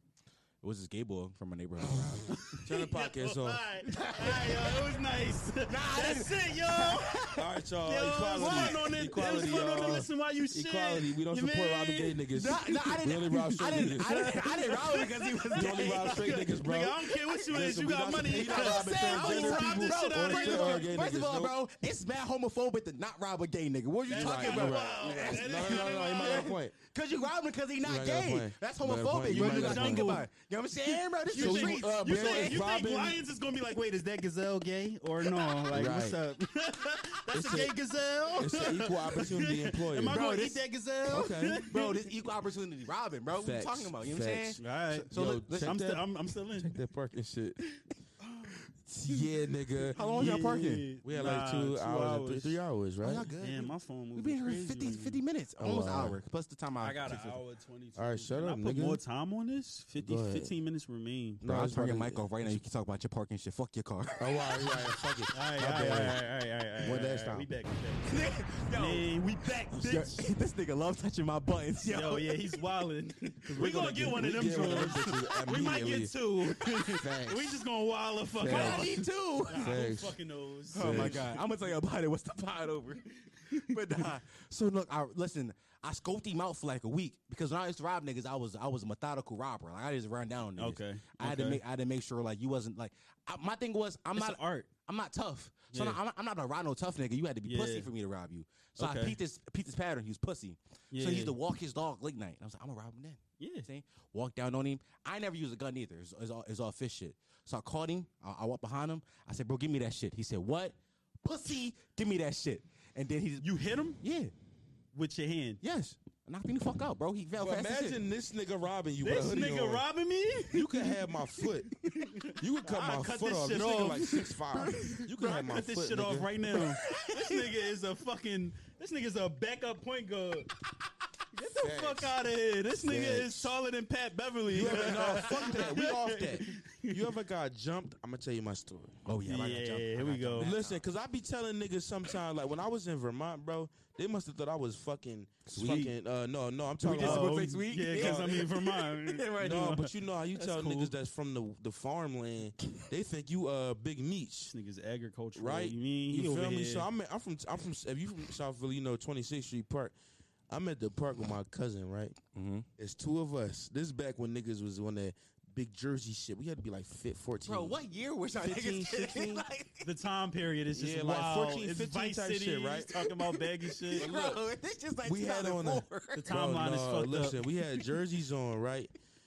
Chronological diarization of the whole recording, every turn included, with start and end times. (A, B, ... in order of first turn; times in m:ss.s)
0:00.6-0:02.6 A
0:02.0-0:03.6 B
0:02.4-0:12.2 C
0:03.8-0:04.8 A
0:05.7-0:07.4 A
0:07.4-0:14.4 B
0:08.3-0:08.9 A
0:12.3-0:16.3 A
0:13.7-0:20.9 C
0:15.5-0:21.6 B
0:18.3-0:32.7 A
0:24.1-0:26.6 C
0:24.1-0:26.7 B
0:27.8-0:30.2 B
0:29.3-0:30.3 C
0:30.9-0:42.1 C
0:31.3-0:33.2 B
0:35.7-0:36.2 B
0:37.3-0:37.7 B
0:38.4-0:40.2 B
0:40.1-0:45.8 A
0:41.1-0:41.7 B
0:43.3-0:46.0 B
0:44.6-0:46.7 C
0:46.6-0:47.6 B
0:48.2-0:48.6 C
0:48.8-0:49.3 A
0:49.0-0:50.3 B
0:49.8-0:50.9 A
0:49.9-0:52.6 C
0:51.0-0:53.3 B
0:53.0-0:57.4 A
0:53.4-0:55.2 C
0:55.6-0:56.2 B
0:56.8-1:01.4 C
0:58.0-0:59.0 B
1:00.0-1:00.5 B
1:01.4-1:02.6 B
1:01.4-1:04.8 A
1:04.2-1:06.2 B
1:05.3-1:10.2 C
1:06.8-1:07.4 B
1:08.0-1:12.5 A
1:11.9-1:21.4 C
1:13.4-1:16.1 B
1:16.9-1:17.6 B
1:18.4-1:19.0 B
1:18.5-1:19.8 A
1:19.6-1:20.2 B
1:20.7-1:53.5 A
1:20.8-1:21.2 B
1:23.5-1:24.0 C
1:30.6-1:31.6 C
1:34.2-1:34.7 C
1:35.7-1:36.0 C
1:37.4-1:37.9 C
1:38.8-1:39.2 C
1:40.9-1:41.4 C
1:43.4-1:43.7 C
1:53.4-1:54.0 C
1:54.0-1:54.3 A
1:54.9-1:55.6 C
1:55.6-1:58.0 A
1:57.4-1:59.8 B
1:59.0-2:01.0 C
2:00.5-2:01.8 B
2:01.8-2:10.5 C
2:02.3-2:06.3 B
2:04.5-2:05.1 A
2:06.5-2:07.5 A
2:11.3-2:17.1 C
2:11.5-2:12.1 B
2:12.7-2:13.5 B
2:14.5-2:18.9 B
2:14.9-2:15.7 A
2:19.0-2:20.8 A
2:19.3-2:20.5 C
2:20.4-2:28.4 B
2:25.5-2:25.9 A
2:25.6-2:25.9 C
2:26.8-2:29.8 A
2:26.9-2:30.9 C
2:29.4-2:34.5 B
2:34.5-2:36.9 C
2:35.3-2:39.9 B
2:40.5-2:42.2 B
2:42.3-2:42.7 A
2:42.8-2:47.8 B
2:47.4-2:49.9 A
2:48.4-2:49.4 B
2:49.8-2:54.1 C
2:50.7-2:53.1 B
2:53.6-2:56.3 A
2:54.0-2:54.4 B
2:55.0-2:58.9 B
2:56.2-2:57.4 C